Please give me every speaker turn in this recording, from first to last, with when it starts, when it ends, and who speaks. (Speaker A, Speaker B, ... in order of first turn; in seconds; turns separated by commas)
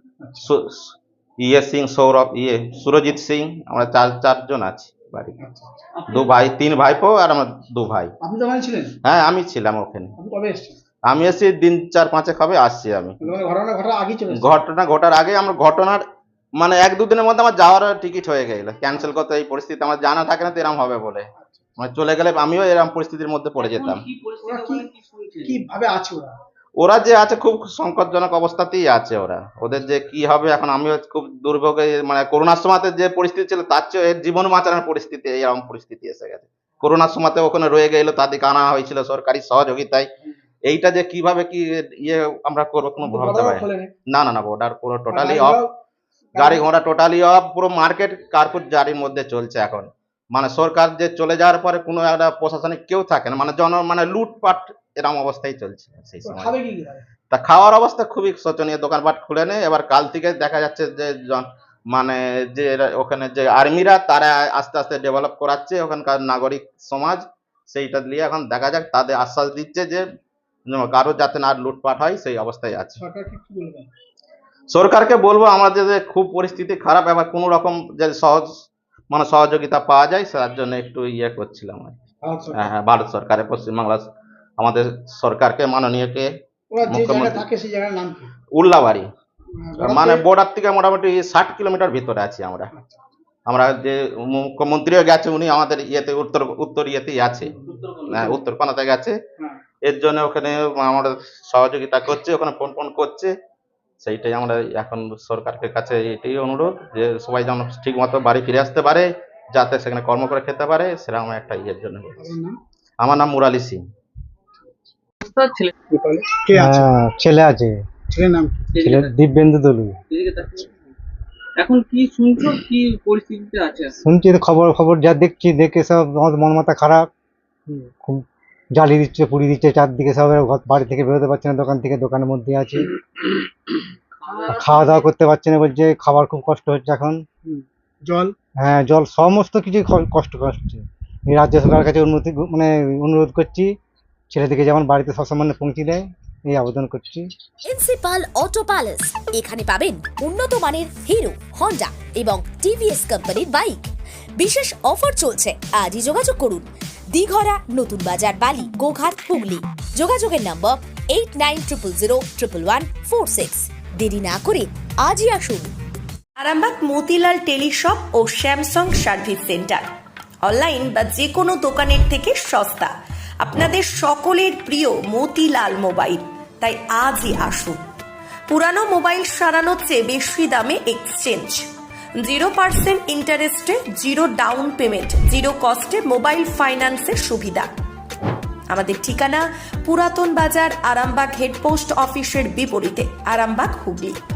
Speaker A: 0.2-0.5, Speaker B: 0.4-5.3, Speaker A: 5.4-5.8, Speaker C: 6.0-6.3, Speaker B: 6.1-8.1, Speaker A: 8.2-8.9, Speaker B: 9.0-10.1, Speaker A: 10.2-10.8, Speaker B: 11.1-13.3, Speaker A: 13.2-14.6, Speaker B: 14.3-16.0, Speaker B: 16.6-24.1, Speaker A: 21.4-21.6, Speaker C: 23.6-25.6, Speaker A: 24.4-24.9, Speaker A: 25.5-26.3, Speaker B: 26.8-40.1, Speaker B: 40.7-45.6, Speaker A: 43.0-43.9, Speaker A: 45.1-45.7, Speaker A: 46.4-46.6, Speaker B: 46.4-56.6, Speaker A: 56.2-57.0, Speaker B: 57.3-70.0, Speaker B: 70.7-73.0, Speaker A: 73.0-73.9, Speaker B: 74.7-78.5, Speaker B: 79.1-82.0, Speaker A: 82.2-82.7, Speaker B: 82.5-84.0, Speaker B: 84.6-86.3, Speaker A: 86.7-88.3, Speaker B: 86.9-87.5, Speaker B: 88.5-89.1, Speaker A: 89.6-90.2, Speaker B: 89.8-92.7, Speaker A: 92.7-93.0, Speaker B: 93.5-99.2, Speaker A: 97.5-97.8, Speaker C: 97.7-98.4, Speaker B: 99.9-103.3, Speaker B: 104.0-112.4, Speaker A: 112.2-112.5, Speaker B: 113.0-113.8, Speaker C: 115.2-115.7, Speaker A: 115.9-116.9, Speaker D: 116.6-117.7, Speaker A: 118.1-118.7, Speaker C: 118.8-119.1, Speaker D: 118.8-120.0, Speaker C: 120.1-120.9, Speaker C: 121.6-124.0, Speaker D: 124.0-127.1, Speaker D: 128.8-132.9, Speaker C: 134.2-135.0, Speaker D: 134.5-137.2, Speaker A: 137.4-138.3, Speaker D: 138.6-143.7, Speaker D: 144.3-147.3, Speaker E: 147.7-165.7, Speaker F: 166.4-169.9, Speaker F: 170.4-177.8, Speaker F: 178.5-187.7, Speaker F: 188.7-194.2